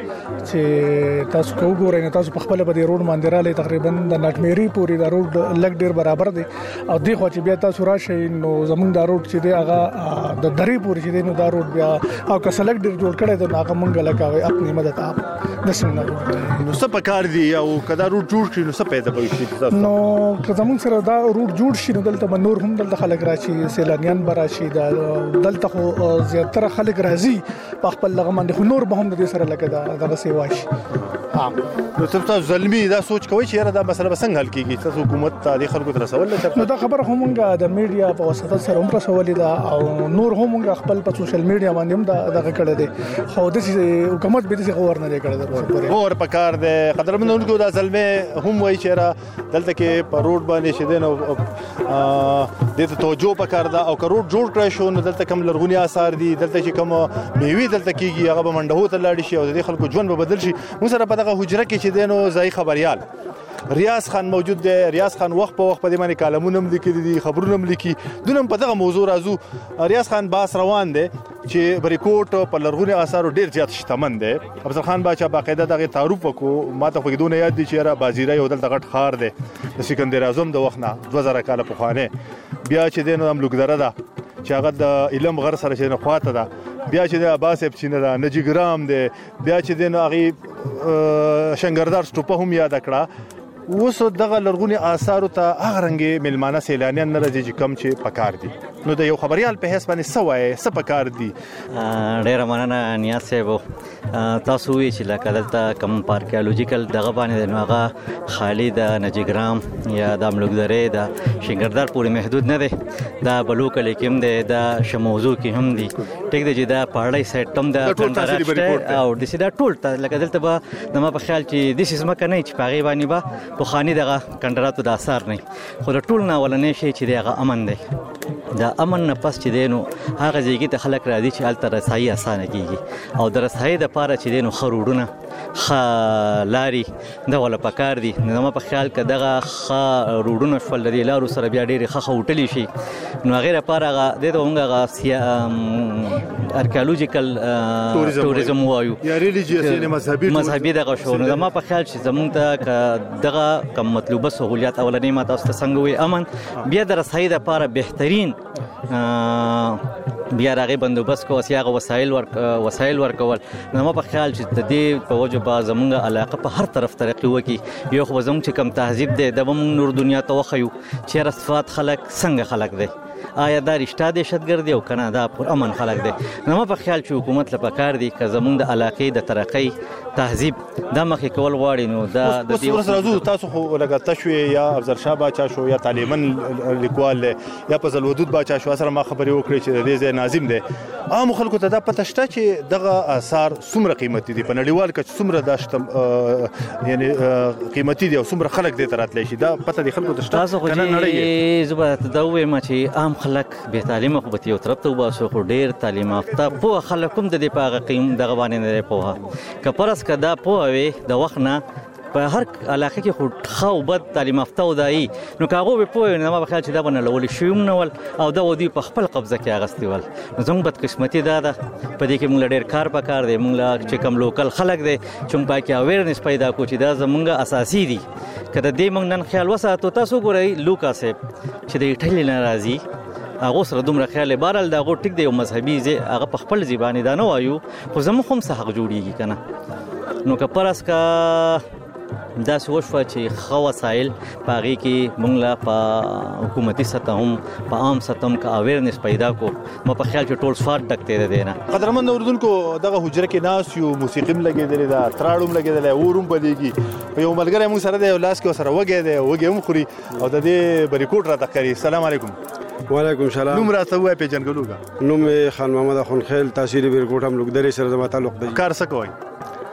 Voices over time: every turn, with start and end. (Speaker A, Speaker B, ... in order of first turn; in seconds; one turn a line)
Speaker A: 0.5-16.5
Speaker B: 16.6-19.9
Speaker A: 19.7-30.7
Speaker B: 32.0-36.7
Speaker A: 36.5-46.0
Speaker B: 45.8-63.0
Speaker B: 63.7-82.1
Speaker B: 82.7-93.1
Speaker B: 93.7-101.3
Speaker C: 101.8-103.6
Speaker C: 104.1-127.8
Speaker B: 117.8-119.0
Speaker C: 128.6-142.7
Speaker C: 143.2-158.4
Speaker B: 147.9-151.5
Speaker C: 158.9-159.8
Speaker C: 160.3-172.9
Speaker C: 173.4-183.2
Speaker B: 182.2-201.3
Speaker C: 200.3-211.6
Speaker C: 212.1-231.2
Speaker C: 231.7-232.8
Speaker C: 233.4-239.4
Speaker C: 240.2-241.6
Speaker C: 242.4-251.6
Speaker B: 251.7-262.4
Speaker D: 262.9-263.7
Speaker B: 263.5-264.8
Speaker D: 265.0-268.6
Speaker B: 268.5-269.1